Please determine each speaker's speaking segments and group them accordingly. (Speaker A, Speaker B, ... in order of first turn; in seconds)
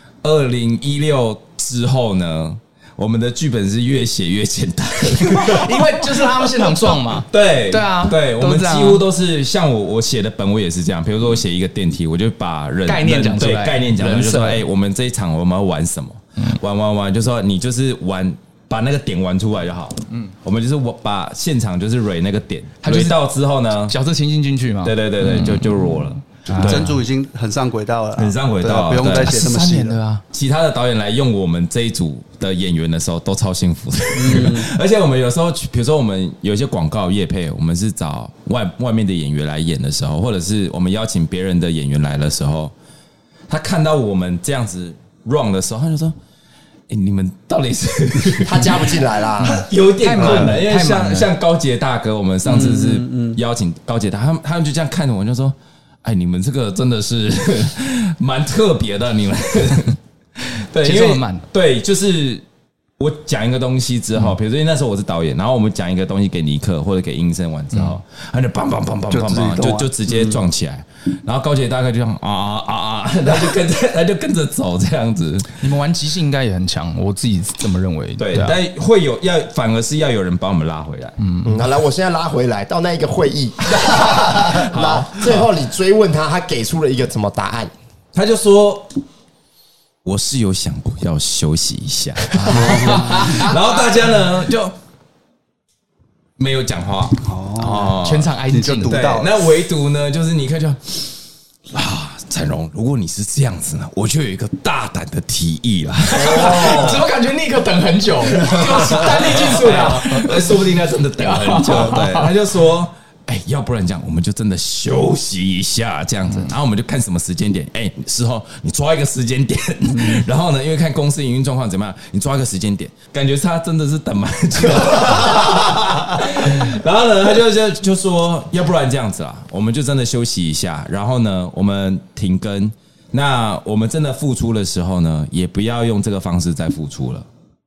Speaker A: 0.2-23.9, 24.8-27.0, 28.1-29.4, 30.3-42.7, 43.5-46.1, 46.9-60.0, 60.7-62.4, 63.0-75.5, 78.2-81.2, 83.7-85.5, 88.1-89.0, 90.0-94.7, 96.4-98.3, 98.8-101.2, 101.7-107.0, 108.2-137.2
Speaker B: 5.2-9.0, 12.9-14.6, 22.8-23.2, 23.9-25.9, 26.4-26.9, 29.2-30.2, 49.4-51.3, 60.8-61.5, 75.6-78.5, 81.2-81.5, 92.3-93.8, 97.6-99.0, 106.2-110.6, 111.2-112.3
Speaker C: 26.5-30.0, 34.1-34.7, 52.4-53.4, 69.1-70.4, 92.5-93.4, 97.2-97.9, 98.5-99.3, 106.2-107.0
Speaker D: 48.4-49.6, 50.2-50.5, 81.4-87.7